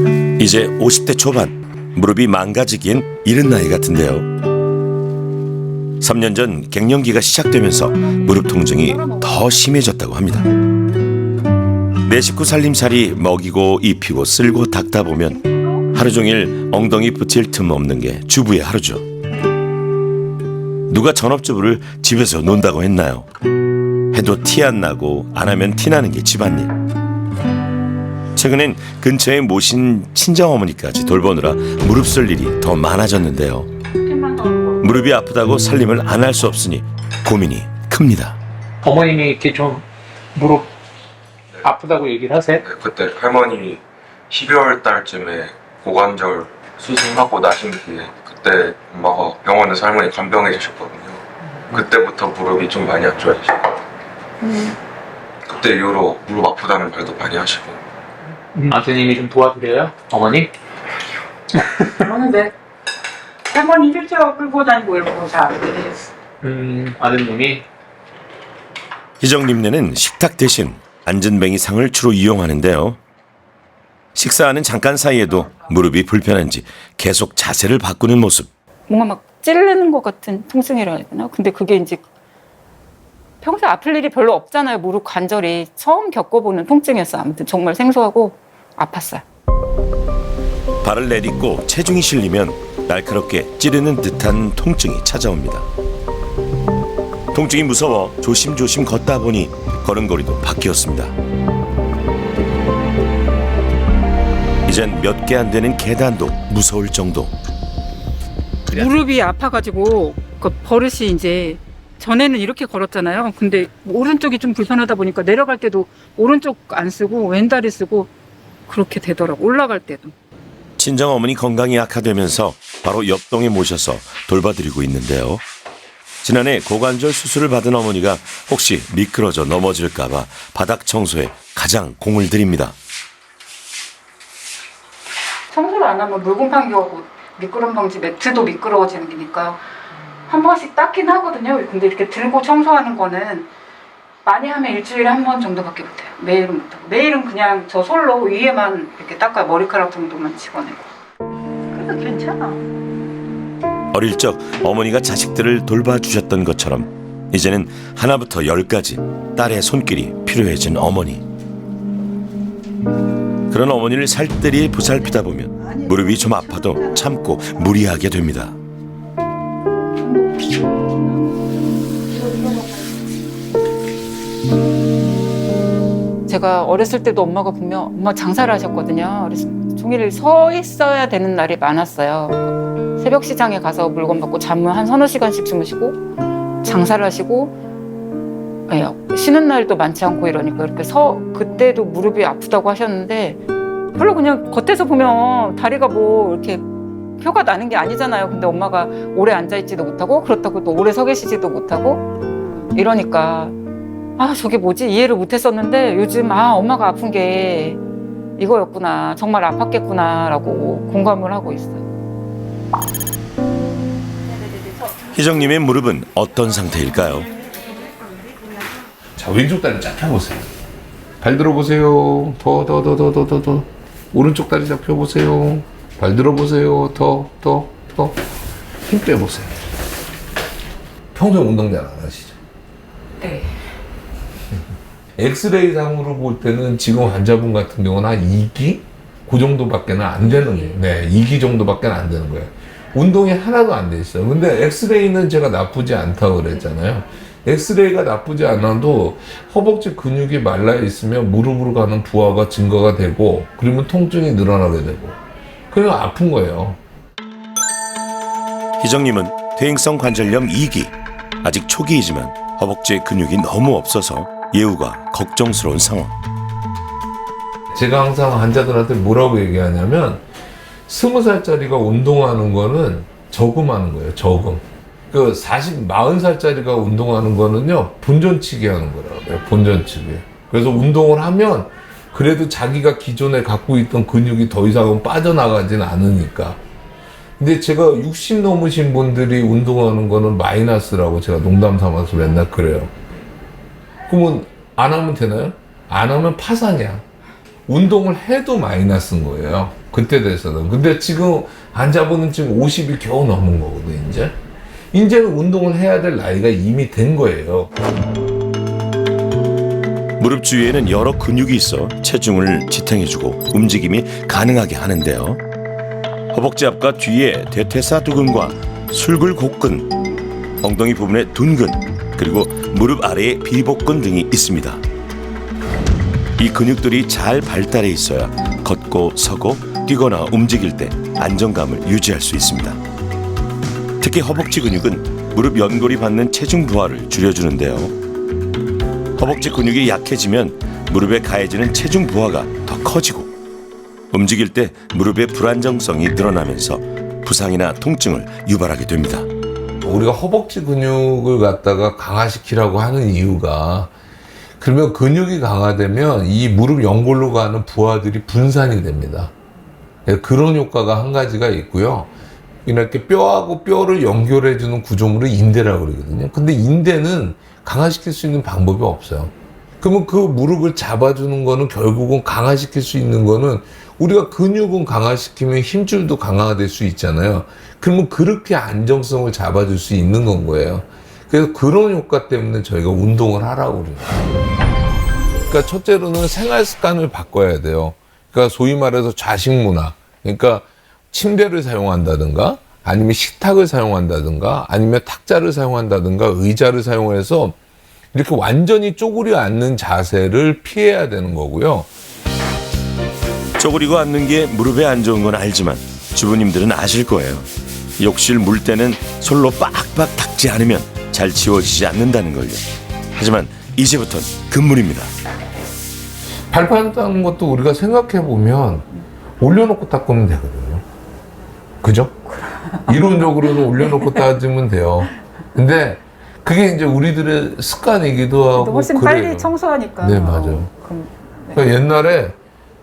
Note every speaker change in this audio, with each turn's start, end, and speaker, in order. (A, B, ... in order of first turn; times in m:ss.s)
0:00.4-0:04.3 A
0:06.0-0:10.5 A
0:08.2-0:09.6 B
0:12.0-0:15.4 A
0:15.4-0:15.8 B
0:15.9-0:19.0 A
0:20.9-0:23.3 A
0:24.1-0:26.7 A
0:28.4-0:33.7 A
0:34.0-0:34.9 B
0:34.8-0:38.4 A
0:38.8-0:40.7 C
0:41.6-0:42.7 C
0:42.7-0:51.2 D
0:51.7-0:53.8 D
0:54.4-0:54.8 B
0:55.4-0:57.8 D
0:58.5-1:00.5 C
1:01.6-1:01.8 C
1:02.0-1:02.5 B
1:03.5-1:06.0 B
1:06.4-1:07.6 C
1:09.2-1:13.0 A
1:14.2-1:18.5 A
1:18.9-1:22.0 B
1:23.4-1:29.2 B
1:30.8-1:35.7 A
1:37.3-1:41.2 A
1:44.7-1:47.4 A
1:48.7-1:58.1 B
1:58.7-2:00.1 B
2:00.8-2:05.4 A
2:06.2-2:12.8 A
2:15.5-2:19.6 B
2:20.3-2:23.5 B
2:24.2-2:30.9 B
2:31.7-2:32.6 B
2:33.9-2:41.2 A
2:43.5-2:48.6 A
2:50.0-2:50.6 B
2:52.1-2:52.9 B
2:56.3-3:02.4 B
3:03.0-3:06.0 B
3:06.6-3:07.5 B
3:08.7-3:13.4 B
3:13.9-3:16.6 B
3:17.2-3:22.0 B
3:22.7-3:23.5 B
3:24.2-3:27.8 B
3:28.4-3:31.8 B
3:35.1-3:37.3 A
3:39.2-3:40.5 E
3:41.2-3:48.2 E
3:48.9-3:49.6 E
3:51.1-3:52.4 E
3:53.2-3:53.6 B
3:55.2-4:15.2 E
4:00.2-4:00.8 B
4:15.7-4:16.8 E
4:18.8-4:26.1 A
4:27.7-4:30.2 E
4:30.9-4:46.6 E
4:47.4-4:52.9 E
4:54.1-4:57.0 E
4:57.7-5:04.4 E
5:04.9-5:07.7 E
5:10.2-5:15.4 A
5:16.3-5:19.9 A
5:20.6-5:24.8 A
5:26.4-5:32.8 A
5:34.0-5:38.0 A
5:39.2-5:43.3 A
5:44.1-5:49.3 A
5:49.8-5:53.9 E
5:54.6-5:59.3 E
6:00.1-6:02.1 E
6:02.7-6:24.4 E
6:25.5-6:37.6 E
6:38.1-6:41.9 E
6:43.6-6:47.5 A
6:48.0-6:52.6 A
6:53.2-6:55.1 A
6:56.5-6:58.9 E
6:59.4-7:00.8 E
7:01.8-7:02.2 E
7:02.3-7:04.2 B
7:02.9-7:10.7 E
7:08.6-7:11.7 B
7:11.5-7:12.4 E